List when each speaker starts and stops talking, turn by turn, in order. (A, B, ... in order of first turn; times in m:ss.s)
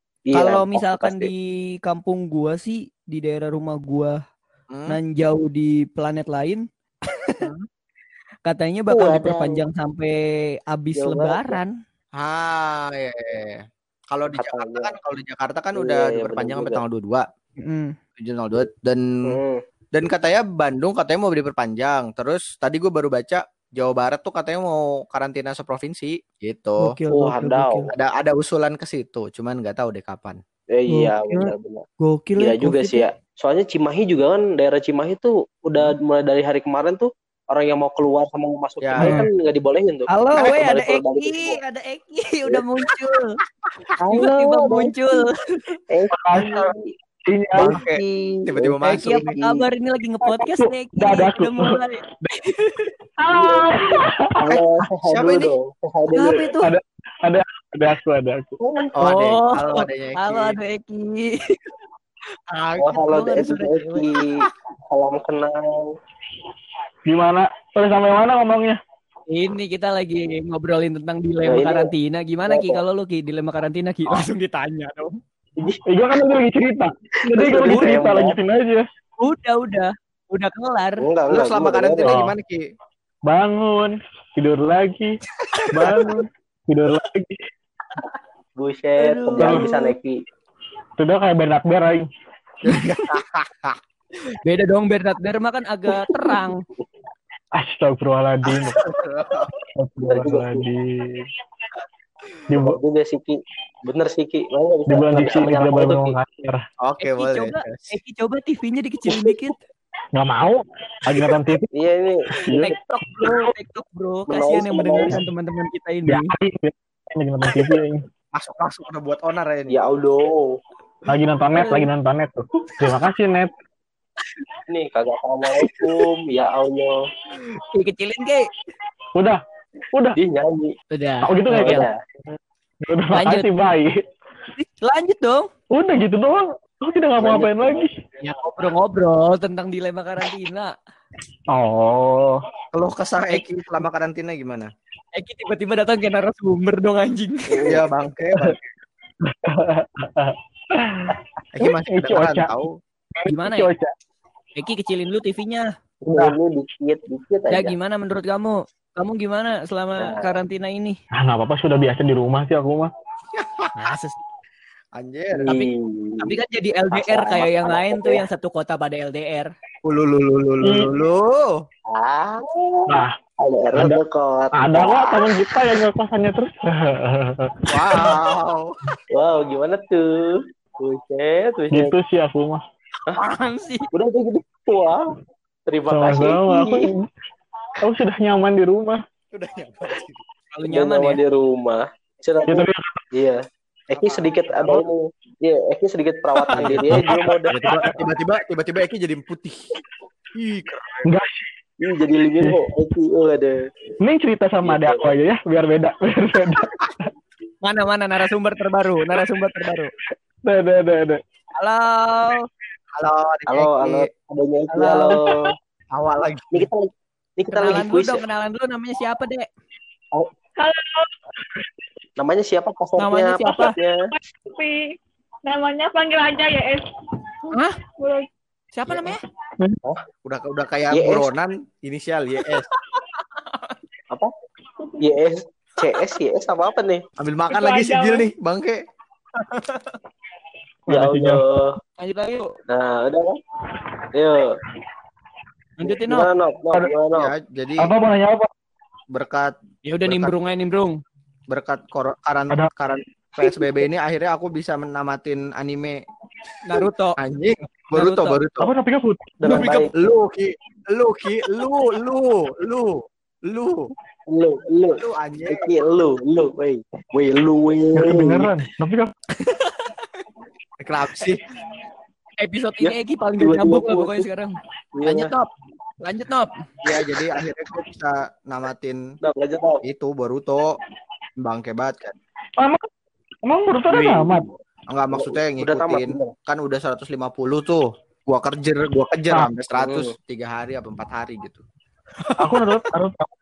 0:00.3-0:01.3 A
0:00.3-0:04.1 B
0:04.7-0:05.0 C
0:04.9-0:06.6 B
0:07.4-0:07.7 B
0:08.4-0:10.1 B
0:08.9-0:09.6 A
0:10.7-0:11.7 B
0:11.0-0:11.6 A
0:12.2-0:17.2 C
0:14.3-0:14.9 A
0:15.8-0:16.8 A
0:17.6-0:17.9 B
0:18.2-0:19.4 C
0:19.2-0:19.6 A
0:19.9-0:26.9 C
0:26.8-0:27.9 B
0:27.1-0:27.9 A
0:27.9-0:30.4 C
0:30.7-0:31.8 A
0:30.9-0:31.5 B
0:32.0-0:33.0 B
0:32.4-0:41.6 A
0:38.8-0:39.2 C
0:39.0-0:39.3 B
0:40.1-0:43.4 B
0:40.3-0:40.6 C
0:44.0-0:44.9 A
0:44.1-0:45.8 B
0:45.9-0:46.9 A
0:46.1-0:46.7 D
0:47.3-0:47.8 D
0:47.6-0:49.3 C
0:47.6-0:49.6 A
0:48.8-0:52.9 B
0:50.3-0:52.4 D
0:53.2-0:54.1 D
0:53.3-0:53.7 A
0:54.4-0:56.5 A
0:54.5-0:55.5 C
0:56.1-0:56.7 B
0:56.6-0:58.6 D
0:58.6-0:58.9 A
0:59.0-1:00.6 C
0:59.0-1:01.6 B
1:02.5-1:03.5 C
1:02.8-1:04.2 A
1:03.0-1:04.0 B
1:04.9-1:05.9 A
1:07.1-1:08.8 D
1:09.3-1:15.2 B
1:11.4-1:11.9 A
1:12.5-1:12.8 A
1:15.9-1:18.8 D
1:17.3-1:18.4 A
1:17.6-1:18.2 B
1:19.2-1:21.0 B
1:21.0-1:22.1 A
1:21.3-1:22.6 C
1:22.0-1:22.3 D
1:23.3-1:25.1 D
1:25.5-1:26.0 C
1:25.7-1:27.4 D
1:28.6-1:30.2 A
1:29.0-1:29.6 B
1:29.4-1:29.7 D
1:31.0-1:32.1 D
1:32.6-1:33.8 C
1:34.4-1:36.6 B
1:37.6-1:38.8 D
1:38.4-1:39.5 C
1:39.8-1:41.3 D
1:40.1-1:40.6 A
1:42.5-1:42.8 D
1:42.6-1:46.2 A
1:44.9-1:46.6 D
1:46.8-1:47.9 C
1:47.0-1:49.6 B
1:50.1-1:51.7 D
1:51.7-1:52.4 A
1:52.3-1:53.4 D
1:52.5-1:56.3 B
1:54.3-1:55.2 A
1:56.1-1:58.0 D
1:58.3-1:59.8 C
1:59.7-2:00.6 A
2:01.1-2:03.5 D
2:01.6-2:01.8 B
2:04.7-2:07.0 A
2:07.7-2:08.5 B
2:09.1-2:09.4 D
2:10.2-2:10.7 A
2:10.9-2:11.9 B
2:11.2-2:11.8 D
2:11.5-2:11.9 A
2:12.8-2:13.9 D
2:13.1-2:13.5 B
2:14.6-2:15.5 B
2:15.7-2:17.9 D
2:17.2-2:17.9 A
2:18.2-2:20.7 B
2:21.5-2:22.4 D
2:22.7-2:24.7 C
2:25.1-2:27.6 B
2:27.5-2:27.8 A
2:27.7-2:28.7 C
2:29.2-2:32.6 D
2:31.5-2:32.7 C
2:33.2-2:33.9 D
2:33.3-2:33.7 B
2:34.6-2:35.6 B
2:36.0-2:37.7 A
2:37.5-2:41.0 B
2:40.0-2:40.3 A
2:41.2-2:42.9 D
2:43.3-2:43.7 C
2:43.8-2:44.2 B
2:44.9-2:45.6 C
2:45.4-2:46.3 A
2:45.4-2:49.5 B
2:46.9-2:48.2 A
2:49.8-2:51.6 C
2:50.6-2:51.0 D
2:51.9-2:55.5 A
2:54.6-2:58.2 D
2:57.7-2:58.7 C
2:59.1-3:01.9 A
3:01.7-3:02.6 D
3:03.1-3:03.9 B
3:03.9-3:05.0 A
3:05.7-3:06.9 A
3:05.9-3:07.0 D
3:07.8-3:09.0 D
3:09.3-3:10.2 C
3:10.5-3:11.2 B
3:10.7-3:18.0 A
3:12.4-3:13.0 D
3:14.0-3:14.2 C
3:14.6-3:14.8 D
3:16.5-3:17.9 D
3:16.6-3:19.7 C
3:20.3-3:20.7 C
3:20.7-3:21.0 A
3:21.1-3:21.4 D
3:21.8-3:23.5 A
3:24.0-3:27.0 D
3:24.6-3:25.1 A
3:27.6-3:29.9 B
3:30.4-3:31.2 D
3:31.6-3:32.4 B
3:33.0-3:34.1 C
3:33.5-3:35.4 A
3:34.7-3:35.2 B
3:35.1-3:35.3 C
3:35.9-3:36.7 C
3:36.5-3:38.2 A
3:37.5-3:39.5 B
3:40.6-3:40.9 E
3:42.2-3:44.0 A
3:43.0-3:43.8 B
3:44.1-3:44.8 E
3:45.4-3:46.8 E
3:47.5-3:48.3 E
3:47.5-3:47.8 B
3:48.7-3:49.2 B
3:50.2-3:52.6 C
3:50.9-3:51.3 A
3:55.0-3:57.0 A
3:57.2-3:58.8 C
3:57.5-3:58.3 E
4:00.9-4:01.4 D
4:00.9-4:01.7 A
4:02.0-4:02.6 B
4:02.7-4:03.4 A
4:04.1-4:04.6 A
4:05.8-4:06.3 B
4:05.8-4:07.3 A
4:07.2-4:07.9 C
4:07.8-4:08.5 D
4:09.1-4:09.5 C
4:09.8-4:11.0 B
4:10.0-4:10.3 C
4:11.5-4:16.0 C
4:13.4-4:13.8 D
4:16.6-4:17.2 B
4:17.2-4:18.7 C
4:17.9-4:18.4 B
4:18.6-4:19.7 D
4:19.4-4:19.9 A
4:19.4-4:23.9 C
4:24.3-4:28.5 A
4:24.9-4:25.7 C
4:28.0-4:29.1 D
4:29.4-4:29.9 B
4:30.8-4:31.4 C
4:32.4-4:35.5 B
4:32.8-4:34.2 A
4:34.9-4:35.3 A
4:36.0-4:36.6 B
4:36.8-4:39.0 C
4:39.2-4:39.8 A
4:39.8-4:40.8 C
4:41.4-4:42.1 C
4:42.6-4:42.8 D
4:43.4-4:44.5 D
4:44.0-4:44.3 A
4:44.9-4:51.6 C
4:45.1-4:46.3 A
4:49.8-4:50.1 A
4:52.2-4:52.8 C
4:52.4-4:53.2 D